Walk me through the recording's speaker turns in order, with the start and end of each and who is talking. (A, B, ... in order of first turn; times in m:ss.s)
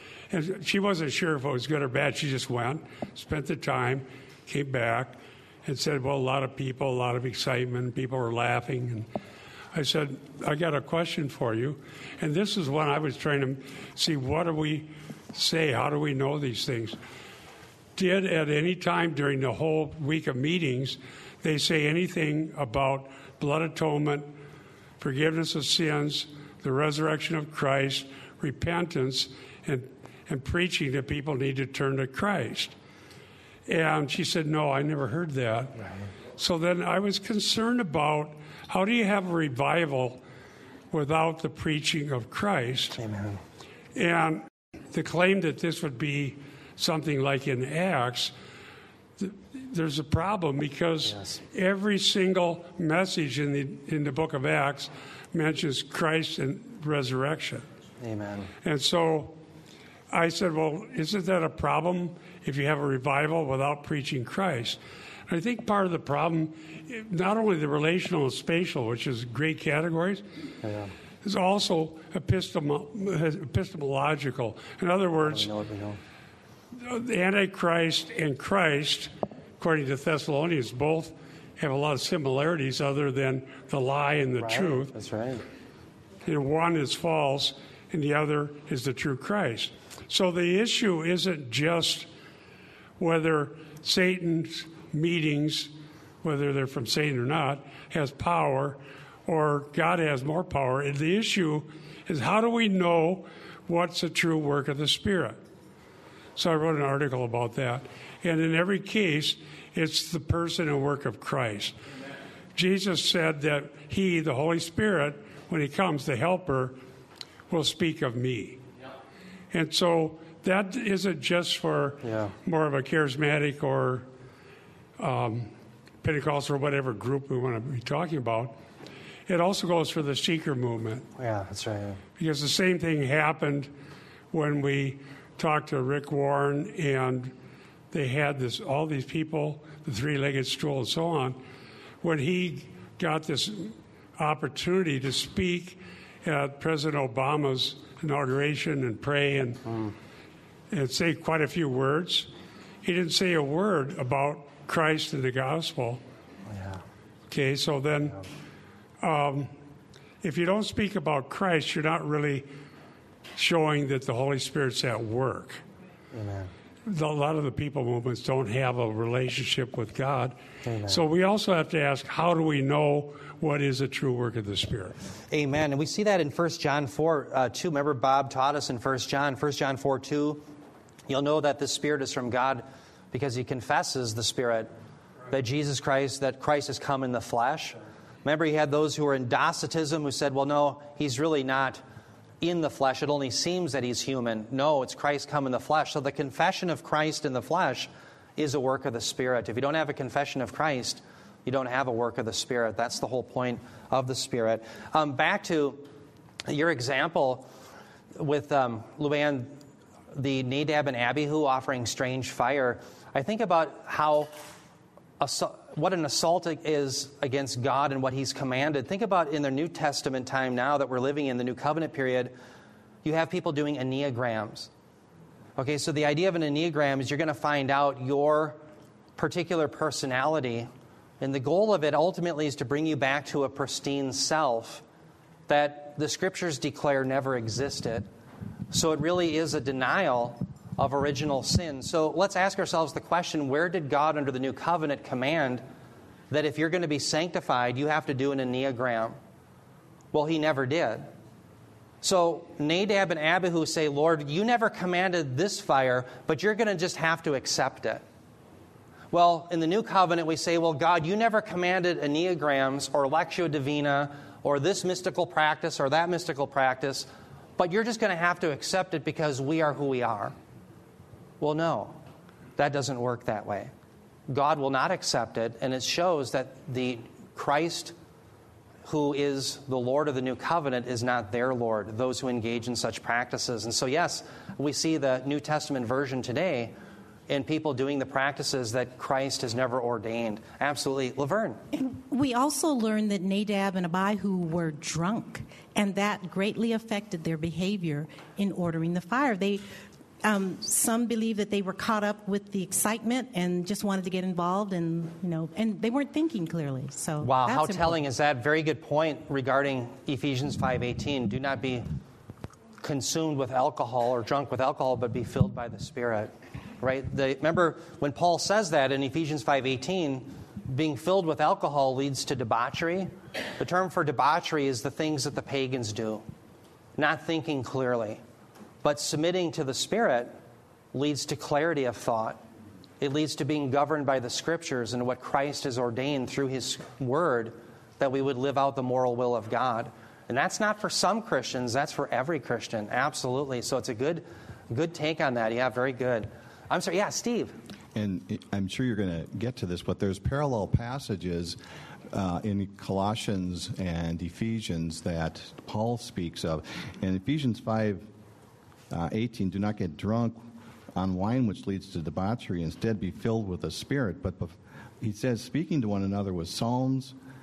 0:00.3-0:09.1 A
0:09.7-0:17.0 A
0:18.0-0:24.3 A
0:25.0-0:32.7 A
0:33.7-0:35.8 A
0:36.4-0:40.2 A
0:40.9-0:43.0 A
0:43.0-0:43.4 B
0:44.0-0:48.3 A
0:49.2-0:57.6 A
0:51.1-0:51.4 B
0:58.0-0:58.5 B
0:58.6-0:59.4 A
1:00.1-1:10.2 A
1:10.6-1:10.9 B
1:11.2-1:15.5 A
1:15.2-1:16.0 B
1:16.8-1:24.9 A
1:24.4-1:25.4 B
1:26.2-1:32.1 A
1:33.0-1:35.7 A
1:36.2-1:45.4 A
1:46.4-1:51.8 A
1:52.6-1:56.8 A
1:57.5-1:58.6 A
1:59.5-2:04.1 A
2:02.0-2:02.3 B
2:05.0-2:05.5 A
2:06.0-2:08.6 A
2:09.3-2:11.1 A
2:11.2-2:12.0 B
2:12.2-2:13.7 A
2:14.3-2:17.3 A
2:17.9-2:21.4 A
2:22.0-2:29.6 A
2:30.7-2:32.3 A
2:32.8-2:36.0 A
2:36.5-2:36.8 B
2:37.3-2:38.2 A
2:39.0-2:39.5 A
2:40.2-2:42.5 A
2:43.4-2:45.6 A
2:46.1-2:46.5 B
2:46.9-2:55.0 A
2:50.6-2:51.0 B
2:55.3-3:00.4 B
3:01.1-3:04.7 B
3:05.3-3:11.8 B
3:12.4-3:25.9 B
3:26.5-3:27.5 B
3:28.2-3:29.6 B
3:30.1-3:34.5 B
3:35.2-3:42.3 B
3:43.0-3:44.7 B
3:45.6-3:48.6 B
3:49.2-3:50.7 B
3:51.2-3:54.8 B
3:55.5-3:58.1 B
3:58.7-4:05.6 B
4:06.3-4:09.2 B
4:10.1-4:11.1 B
4:12.0-4:18.0 B
4:19.1-4:30.3 B
4:31.4-4:32.0 B
4:32.6-4:33.7 B
4:34.3-4:37.9 B
4:38.8-4:46.7 B
4:47.3-4:51.6 B
4:51.9-4:59.6 C
5:00.2-5:08.0 C
5:07.2-5:11.9 B
5:12.8-5:26.2 B
5:27.0-5:28.2 B
5:28.8-5:30.4 B
5:30.9-5:32.4 B
5:33.0-5:47.6 B
5:48.0-5:51.6 D
5:52.1-5:58.1 D
5:58.9-6:00.4 D
6:01.0-6:07.2 D